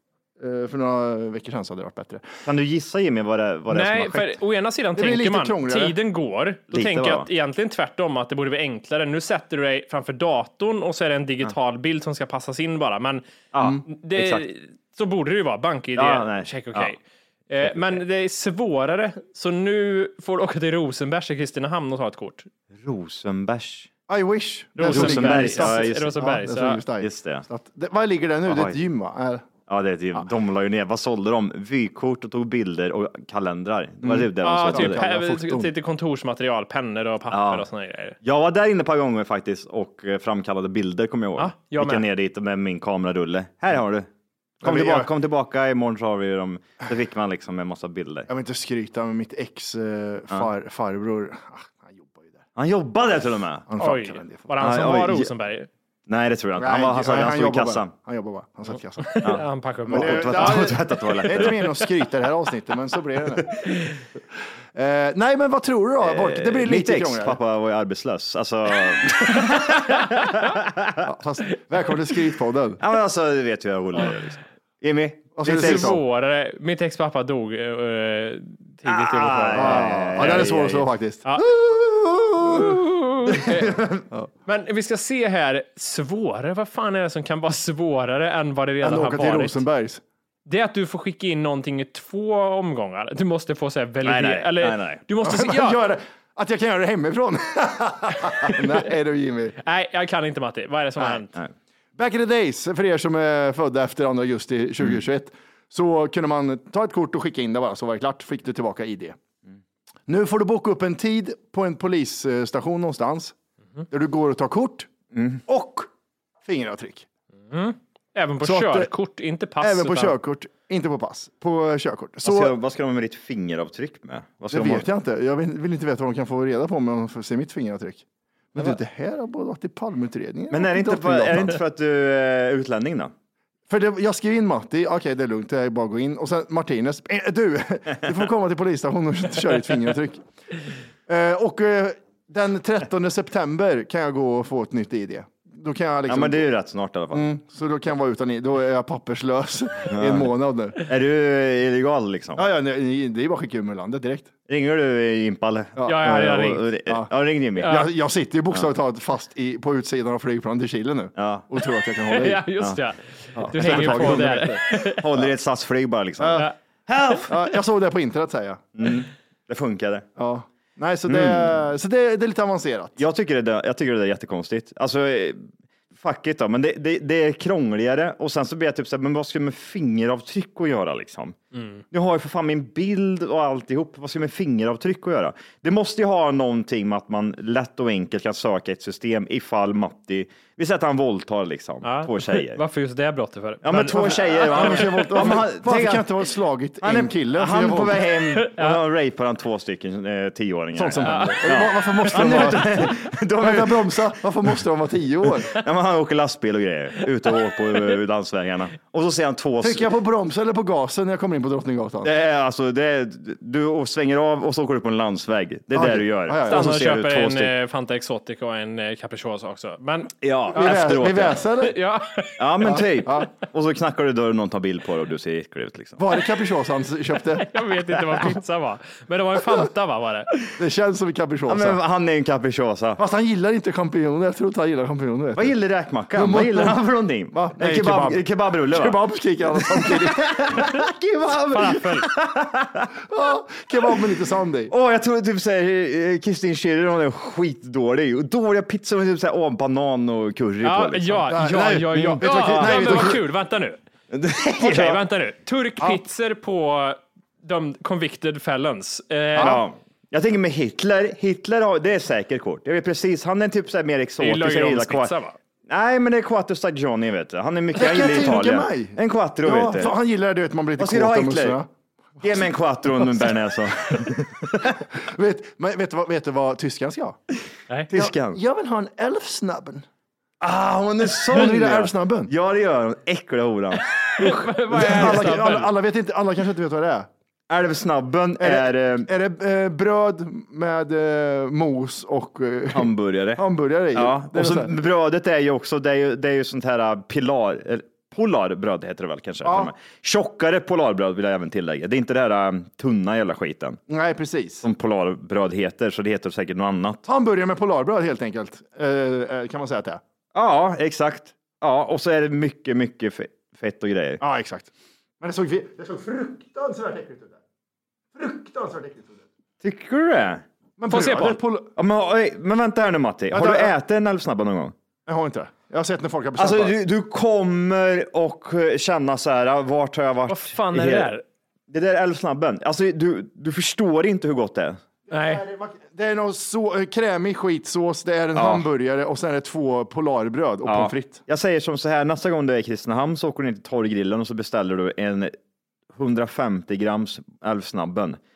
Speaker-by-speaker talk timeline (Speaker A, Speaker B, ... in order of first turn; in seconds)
Speaker A: 0.4-2.3, 4.9-6.0, 24.1-29.4, 34.0-35.7, 44.6-45.1, 48.3-52.5, 53.7-55.1, 56.6-59.3, 59.9-63.6, 64.7-67.4, 71.0-72.8, 75.3-76.0, 79.5-82.8, 88.8-90.0, 95.2-99.6, 102.0-109.2, 110.1-113.3, 113.9-114.9, 115.5-115.9, 116.4-117.0, 118.4-118.9, 119.6-122.5, 124.5-131.6, 133.7-140.2, 141.1-146.5, 147.1-150.8, 152.3-154.3, 155.8-156.1, 157.6-162.4, 163.3-164.6, 166.2-166.5, 167.3-168.6, 170.2-173.0, 193.9-198.0, 200.7-205.5, 209.6-212.1, 215.7-216.7, 220.5-221.7, 222.6-223.3, 226.0-227.5, 230.5-231.8, 233.0-235.5, 236.1-236.8, 237.3-240.6, 243.1-244.7, 251.3-253.2, 267.7-271.7, 274.9-277.2, 277.9-279.8, 281.2-282.3, 284.7-287.1, 288.4-294.7, 299.4-299.7, 303.9-304.6, 307.1-310.0, 314.2-317.4, 318.1-319.2, 320.8-321.7, 323.3-323.7, 325.1-326.8, 335.1-341.2
Speaker B: 2.5-4.4, 6.7-7.3, 13.5-14.4, 15.9-16.9, 17.6-18.0, 22.7-23.9, 24.9-26.1, 27.0-27.4, 28.5-28.8, 29.7-35.1, 37.3-37.7, 38.2-44.1, 44.6-48.3, 52.5-53.7, 54.6-55.3, 56.1-57.9, 59.2-61.7, 66.0-71.0, 72.8-76.0, 78.8-80.9, 83.3-84.0, 94.0-95.0, 115.1-115.4, 122.2-124.9, 130.5-133.1, 146.1-147.3, 149.9-150.3, 150.8-152.4, 154.5-157.8, 161.2-161.5, 163.5-167.3, 168.8-170.1, 171.1-171.6, 173.0-181.4, 181.9-192.6, 193.6-196.1, 196.8-204.2, 205.4-209.9, 212.0-217.5, 220.2-221.4, 222.4-226.0, 231.5-233.0, 235.3-239.0, 239.5-242.9, 244.7-253.2, 254.1-255.0, 259.4-265.1, 265.7-269.9, 270.8-271.6, 272.2-274.8, 277.9-278.4, 280.4-284.3, 284.9-285.3, 287.5-289.1, 292.7-303.8, 304.6-307.0, 310.3-314.2, 319.6-320.4, 321.8-324.7, 326.4-331.1, 331.7-334.8, 338.3-338.6, 340.6-345.3, 345.9-348.2
Speaker C: 3.7-13.2, 13.8-22.5, 24.8-26.8, 34.4-38.1, 41.4-42.0, 53.8-55.7, 59.0-60.8, 74.0-74.2, 75.5-80.4, 82.5-83.8, 84.5-89.6, 90.5-95.8, 99.6-101.3, 117.5-120.1, 155.8-156.7, 157.6-157.9, 162.2-165.0, 181.5-181.8, 191.8-195.1, 198.3-198.8, 201.0-201.4, 216.5-220.7, 221.6-222.4, 227.4-230.3, 241.5-242.1, 250.6-253.8, 254.6-259.6, 264.2-265.4, 284.2-285.7, 320.9-321.4, 330.3-331.2, 335.1-335.4